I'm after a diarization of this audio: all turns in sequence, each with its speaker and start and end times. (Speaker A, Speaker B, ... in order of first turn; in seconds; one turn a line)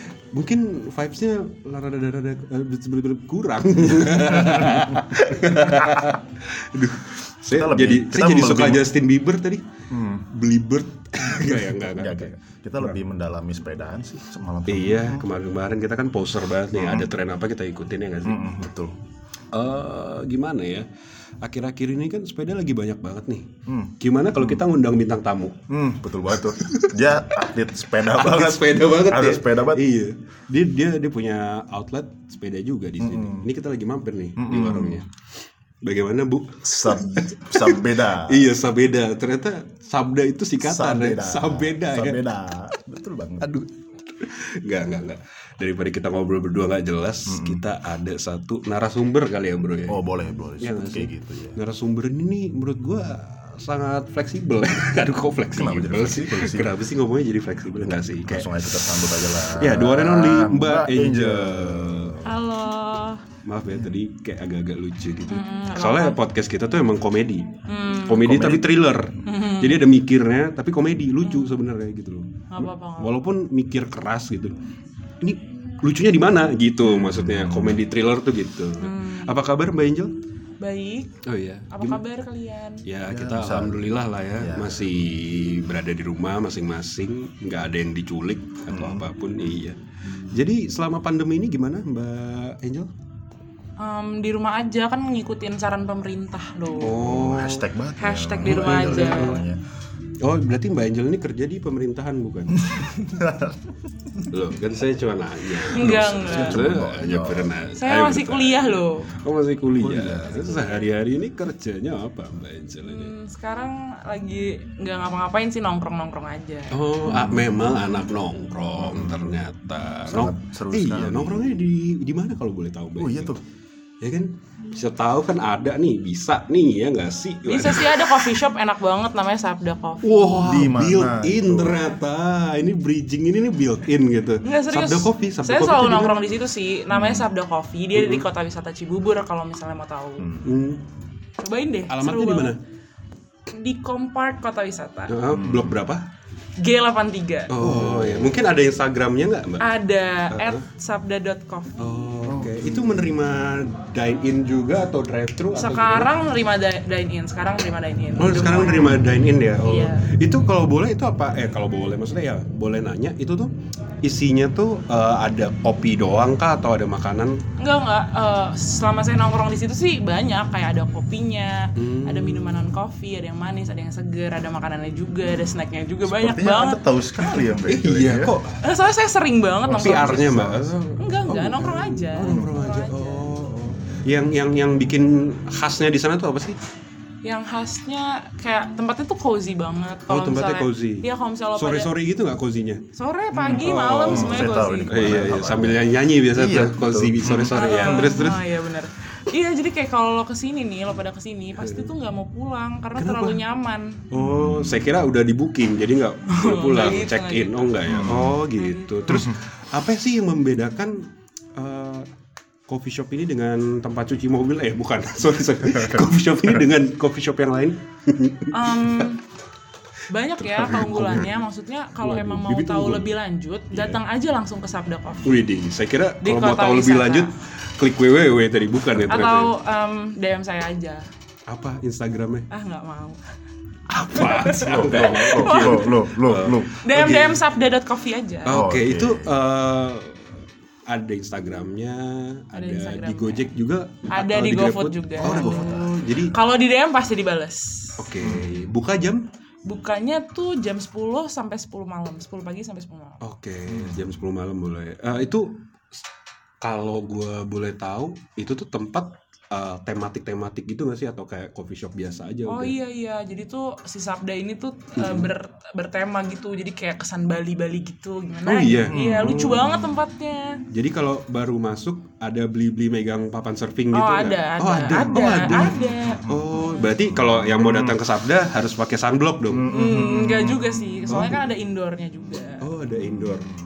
Speaker A: 0.3-9.6
Speaker B: 4.5-4.8
Speaker B: 7.5-8.9
Speaker B: 9.9-10.3
Speaker A: 10.3-13.0
Speaker B: 11.2-15.3
Speaker A: 14.7-18.4
Speaker B: 16.8-17.1
Speaker B: 18.2-18.9
Speaker A: 19.5-20.9
Speaker A: 21.4-23.5
Speaker B: 23.7-24.6
Speaker A: 24.0-25.6
Speaker B: 25.7-29.9
Speaker A: 26.4-27.0
Speaker A: 28.1-35.1
Speaker B: 33.0-33.5
Speaker B: 34.4-35.1
Speaker A: 35.8-42.2
Speaker B: 36.6-38.5
Speaker B: 40.6-43.5
Speaker A: 43.4-50.0
Speaker B: 47.3-47.6
Speaker B: 49.9-51.6
Speaker A: 50.6-62.2
Speaker B: 55.5-56.7
Speaker B: 58.2-62.4
Speaker C: 62.2-63.2
Speaker A: 63.5-67.5
Speaker C: 65.3-66.2
Speaker C: 67.7-68.5
Speaker A: 68.0-74.6
Speaker C: 69.2-69.9
Speaker C: 72.5-73.2
Speaker A: 75.2-80.1
Speaker C: 78.8-79.4
Speaker C: 80.6-81.2
Speaker A: 81.2-82.0
Speaker C: 81.7-82.9
Speaker A: 82.8-89.8
Speaker B: 83.0-84.9
Speaker B: 88.7-89.1
Speaker A: 90.3-92.9
Speaker C: 93.8-97.0
Speaker A: 96.8-97.7
Speaker B: 96.9-99.6
Speaker C: 98.0-99.5
Speaker A: 98.4-99.5
Speaker A: 100.2-102.9
Speaker B: 102.6-103.8
Speaker A: 104.3-113.2
Speaker B: 105.7-107.6
Speaker C: 105.7-106.6
Speaker C: 107.7-109.2
Speaker B: 109.8-110.5
Speaker C: 110.2-110.9
Speaker C: 112.8-116.8
Speaker A: 116.7-123.4
Speaker B: 117.1-117.5
Speaker B: 118.8-119.4
Speaker B: 120.1-121.4
Speaker B: 123.0-123.4
Speaker A: 124.0-128.4
Speaker C: 127.5-130.1
Speaker A: 130.0-136.4
Speaker B: 130.4-131.9
Speaker C: 134.4-140.3
Speaker B: 136.9-137.2
Speaker A: 137.9-138.2
Speaker B: 140.2-140.5
Speaker A: 140.4-140.8
Speaker C: 141.4-142.6
Speaker A: 141.9-142.6
Speaker C: 143.5-145.2
Speaker A: 145.1-146.1
Speaker B: 145.3-145.8
Speaker C: 146.6-147.5
Speaker A: 147.5-149.6
Speaker B: 147.6-148.2
Speaker C: 149.6-152.0
Speaker A: 150.3-150.6
Speaker A: 151.8-156.1
Speaker B: 152.2-152.9
Speaker C: 155.5-159.0
Speaker A: 158.2-163.5
Speaker C: 159.6-160.1
Speaker A: 164.0-167.4
Speaker C: 167.6-177.5
Speaker A: 171.8-172.7
Speaker B: 176.0-178.4
Speaker A: 177.7-178.6
Speaker C: 178.6-183.3
Speaker B: 179.7-180.8
Speaker A: 179.7-186.6
Speaker B: 182.3-182.6
Speaker C: 187.2-191.9
Speaker A: 190.1-192.9
Speaker C: 192.9-195.5
Speaker B: 193.3-198.3
Speaker A: 193.5-198.5
Speaker C: 197.4-204.0
Speaker A: 201.6-201.9
Speaker A: 203.0-203.4
Speaker A: 204.1-212.1
Speaker B: 204.1-204.9
Speaker C: 206.3-209.3
Speaker B: 207.8-208.4
Speaker A: 212.7-219.1
Speaker B: 215.8-216.1
Speaker C: 218.5-219.2
Speaker C: 220.1-225.3
Speaker A: 220.4-221.4
Speaker A: 222.0-223.1
Speaker A: 223.7-224.0
Speaker A: 225.2-229.5
Speaker C: 226.2-227.3
Speaker C: 229.1-231.1
Speaker A: 231.5-232.5
Speaker C: 232.5-233.2
Speaker A: 233.9-237.4
Speaker C: 234.1-236.1
Speaker B: 234.6-236.7
Speaker C: 236.8-238.6
Speaker A: 238.5-246.3
Speaker B: 238.5-239.3
Speaker C: 242.5-243.5
Speaker C: 244.1-248.1
Speaker B: 245.2-245.9
Speaker A: 248.0-249.3
Speaker B: 248.2-248.5
Speaker C: 249.7-253.2
Speaker A: 253.2-255.6
Speaker A: 256.6-262.8
Speaker C: 262.5-270.6
Speaker A: 265.0-265.3
Speaker A: 268.4-269.8
Speaker B: 268.9-269.8
Speaker A: 270.7-279.7
Speaker C: 273.9-276.9
Speaker B: 275.8-278.0
Speaker B: 279.5-280.9
Speaker C: 279.7-282.7
Speaker A: 281.1-281.4
Speaker A: 282.6-283.5